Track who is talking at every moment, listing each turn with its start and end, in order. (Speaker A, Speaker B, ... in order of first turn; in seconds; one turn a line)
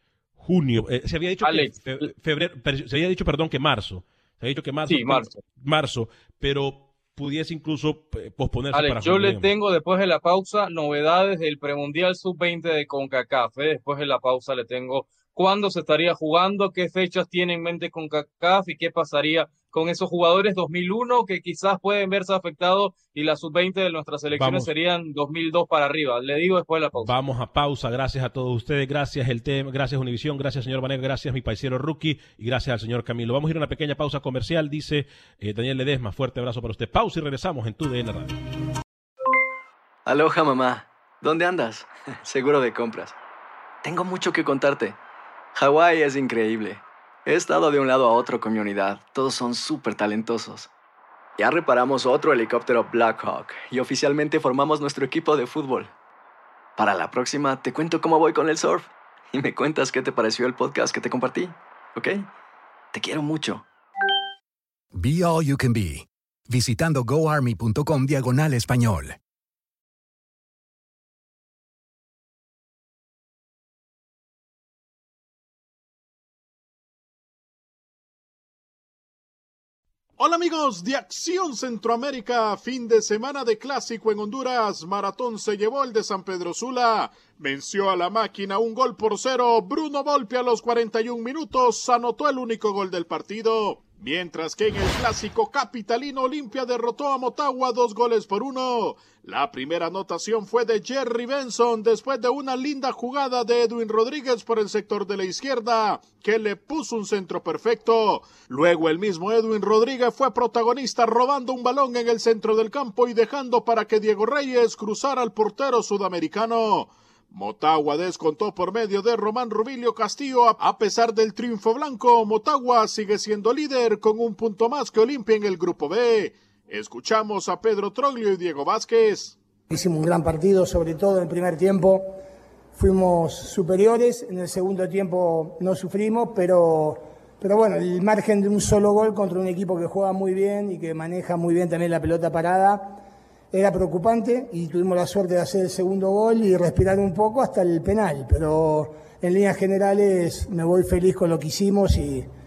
Speaker A: 0.4-9.5
Speaker B: 1.4-2.0
Speaker B: 4.9-5.4
Speaker B: 8.7-27.1
Speaker A: 24.3-24.7
Speaker A: 27.0-38.4
Speaker C: 40.1-43.1
Speaker C: 43.8-45.0
Speaker C: 45.5-50.7
Speaker C: 51.4-55.9
Speaker C: 56.8-62.3
Speaker C: 62.9-63.6
Speaker D: 64.9-69.2
Speaker E: 80.2-129.4
Speaker F: 129.7-132.2
Speaker F: 132.7-143.0
Speaker F: 143.5-152.3